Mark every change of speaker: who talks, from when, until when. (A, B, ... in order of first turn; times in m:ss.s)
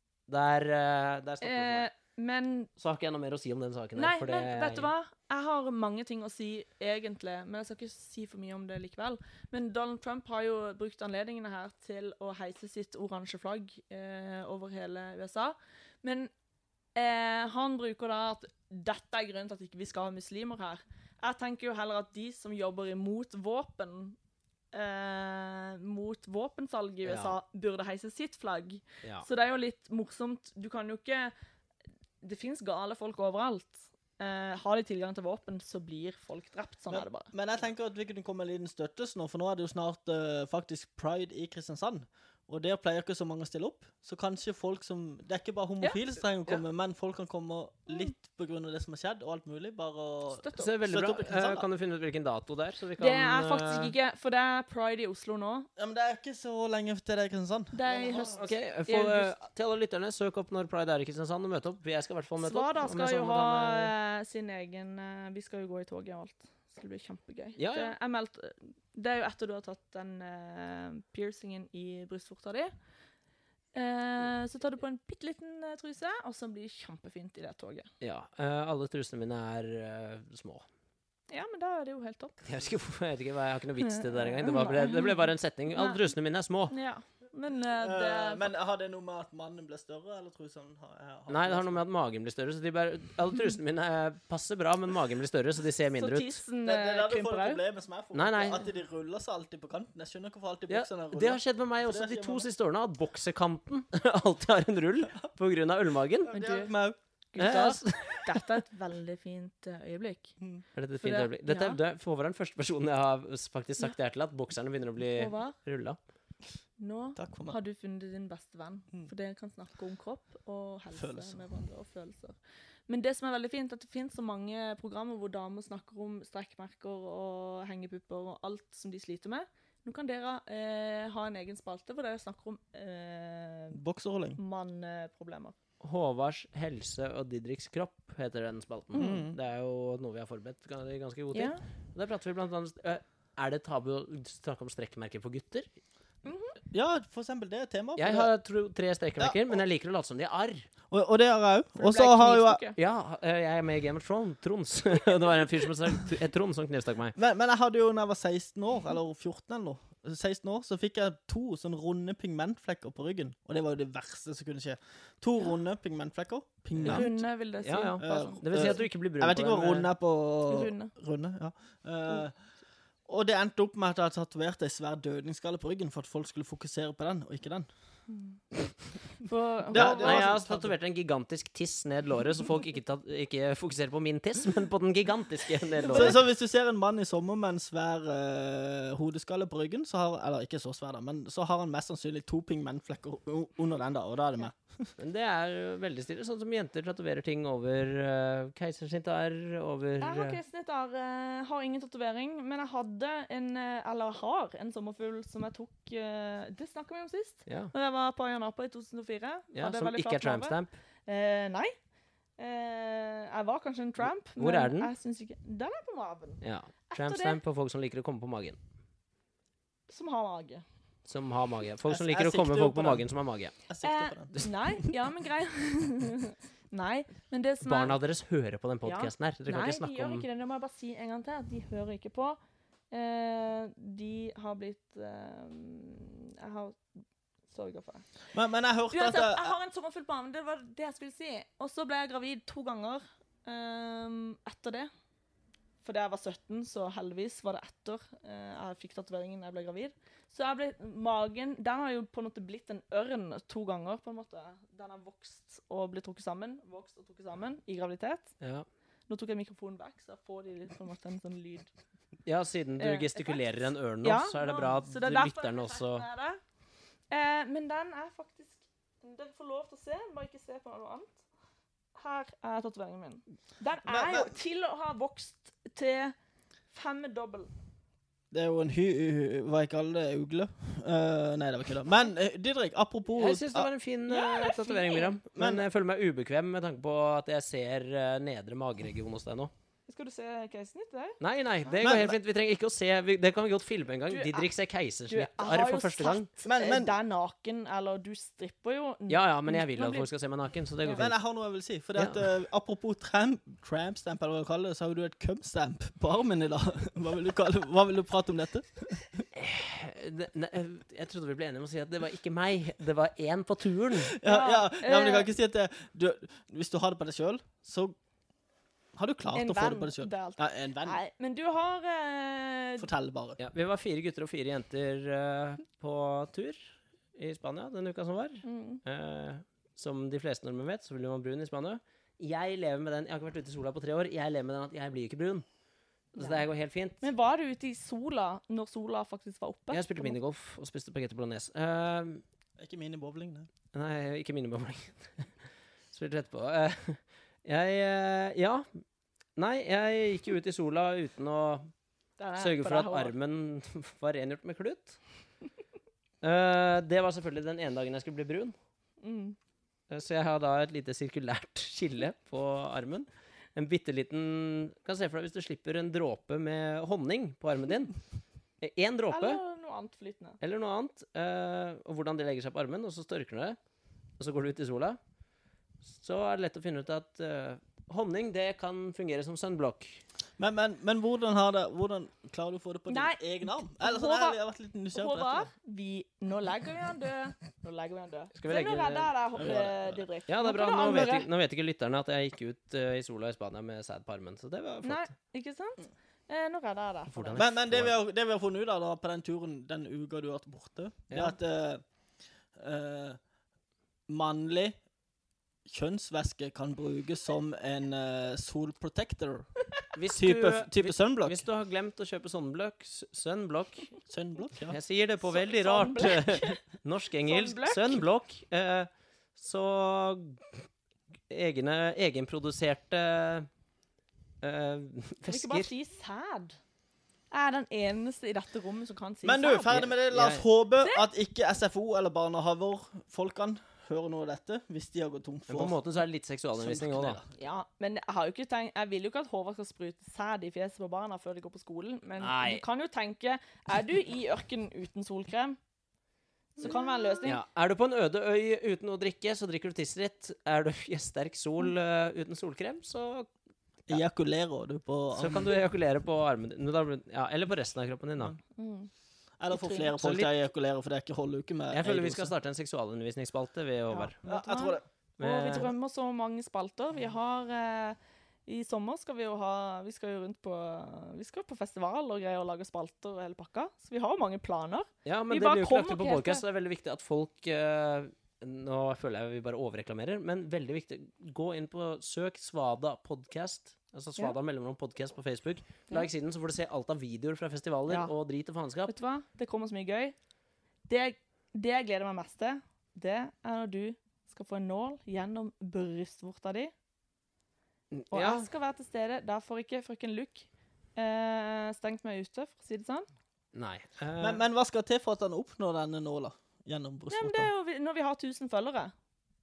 0:00.3-0:01.9 A
0:01.4-0:02.7 B
0:02.8-0:04.9 A
0:04.0-0:16.3 B
0:16.9-0:24.2 B
0:24.7-0:31.3 B
0:27.0-0:27.4 A
0:32.2-0:37.3 B
0:36.9-0:51.6 C
0:50.3-0:50.7 B
0:50.6-0:53.9 A
0:53.0-0:55.7 B
0:55.8-0:58.5 C
0:57.7-0:59.3 B
0:58.3-1:03.9 A
1:02.4-1:12.7 B
1:07.6-1:07.9 A
1:13.7-1:17.9 B
1:18.0-1:20.6 A
1:21.3-1:22.4 B
1:22.4-1:26.7 A
1:23.8-1:26.1 B
1:26.7-1:28.5 B
1:27.8-1:31.8 C
1:31.3-1:36.4 A
1:36.0-1:37.6 B
1:36.6-1:42.5 C
1:38.1-1:38.6 A
1:40.7-1:46.3 A
1:46.2-1:47.0 C
1:46.3-1:46.7 B
1:47.3-1:50.4 B
1:47.4-1:48.4 A
1:50.8-1:56.0 A
1:51.0-1:51.8 B
1:55.1-1:55.6 B
1:56.8-2:02.4 B
1:57.2-1:57.6 C
2:00.9-2:01.4 C
2:02.9-2:13.8 B
2:13.7-2:14.4 C
2:14.4-2:15.6 B
2:15.8-2:25.7 A
2:18.9-2:19.2 B
2:19.0-2:19.4 C
2:21.3-2:21.6 B
2:26.2-2:26.6 B
2:26.7-2:28.3 C
2:28.0-2:30.7 A
2:29.2-2:29.6 C
2:30.9-2:32.6 C
2:31.8-2:32.8 B
2:32.8-2:37.2 A
2:37.2-2:47.1 C
2:46.8-2:49.9 A
2:46.8-2:48.4 B
2:48.0-2:52.4 C
2:50.5-2:50.9 B
2:53.1-2:57.7 C
2:58.1-2:58.4 B
2:59.2-3:00.3 B
2:59.7-3:00.7 C
2:59.7-3:06.2 A
3:05.8-3:06.2 B
3:05.9-3:14.9 C
3:15.0-3:20.4 A
3:20.0-3:31.8 B
3:27.5-3:27.7 A
3:29.5-3:30.7 A
3:32.4-3:37.4 B
3:34.4-3:34.9 A
3:36.4-3:38.6 A
3:39.9-3:40.6 B
3:41.0-3:43.5 A
3:41.8-3:43.1 C
3:43.7-3:44.9 C
3:43.8-3:48.0 B
3:47.6-3:50.2 A
3:48.8-3:52.4 B
3:52.9-3:56.8 B
3:57.5-3:58.0 B
3:58.3-3:59.5 C
3:58.9-4:04.9 B
4:05.8-4:18.3 B
4:18.4-4:18.6 A
4:19.1-4:21.7 B
4:22.2-4:26.0 A
4:22.8-4:26.4 B
4:27.1-4:31.2 B
4:31.9-4:36.1 B
4:33.8-4:34.3 C
4:36.7-4:37.5 B
4:38.3-4:43.7 C
4:43.2-4:49.5 A
4:44.1-4:45.1 B
4:45.4-4:45.6 C
4:49.9-4:51.2 B
4:51.2-4:56.3 A
4:51.8-4:52.2 C
4:54.1-4:54.5 B
4:55.1-5:00.1 B
4:56.4-4:56.9 C
4:59.1-5:01.2 A
5:00.9-5:09.2 C
5:02.0-5:02.3 A
5:09.3-5:14.1 A
5:14.0-5:18.0 C
5:14.2-5:15.3 B
5:18.9-5:21.0 C
5:19.3-5:22.9 B
5:22.8-5:23.4 C
5:23.4-5:35.4 A
5:28.4-5:28.8 B
5:36.1-5:37.0 A
5:36.2-5:36.4 B
5:37.0-5:40.2 B
5:39.7-5:42.2 A
5:42.6-5:43.5 C
5:43.7-5:45.3 A
5:45.9-5:48.6 A
5:49.4-5:51.7 A
5:52.2-5:53.1 B
5:52.4-5:55.0 A
5:56.2-5:58.5 A
5:59.0-5:59.4 B
5:59.9-6:08.0 A
6:08.6-6:09.4 A
6:09.1-6:10.4 B
6:10.4-6:13.6 A
6:14.2-6:15.0 A
6:15.8-6:20.0 A
6:20.4-6:25.5 C
6:22.9-6:24.4 B
6:24.9-6:31.3 B
6:28.3-6:29.5 A
6:29.4-6:30.0 C
6:30.3-6:35.1 A
6:34.8-6:37.4 B
6:37.1-6:38.0 A
6:37.3-6:41.8 C
6:41.1-6:41.3 A
6:42.6-6:43.2 C
6:44.1-6:44.8 C
6:45.6-6:49.5 C
6:49.9-6:53.9 A
6:50.1-6:51.4 C
6:54.1-6:54.8 C
6:54.7-7:00.6 A
6:55.2-6:56.6 B
6:57.3-6:58.0 B
7:01.3-7:03.5 A
7:04.4-7:05.7 A
7:05.3-7:06.6 B
7:07.3-7:09.8 B
7:09.2-7:15.8 C
7:09.7-7:10.4 A
7:10.8-7:11.0 B
7:15.5-7:17.2 A
7:16.6-7:17.3 C
7:17.3-7:25.6 B
7:22.2-7:22.6 A
7:26.6-7:27.4 B
7:26.6-7:27.2 C
7:27.2-7:33.3 A
7:33.9-7:35.6 C
7:35.2-7:38.4 A
7:38.6-7:38.9 B
7:39.4-7:42.3 C
7:39.5-7:39.9 B
7:40.0-7:40.3 A
7:41.7-7:44.2 A
7:43.9-7:56.4 B
7:44.2-7:44.8 C
7:45.2-7:45.7 A
7:55.0-8:08.9 A
8:08.9-8:10.1 B
8:10.9-8:16.7 B
8:17.9-8:18.5 A
8:18.1-8:23.1 B
8:23.5-8:24.4 A
8:24.2-8:27.5 C
8:27.1-8:28.9 B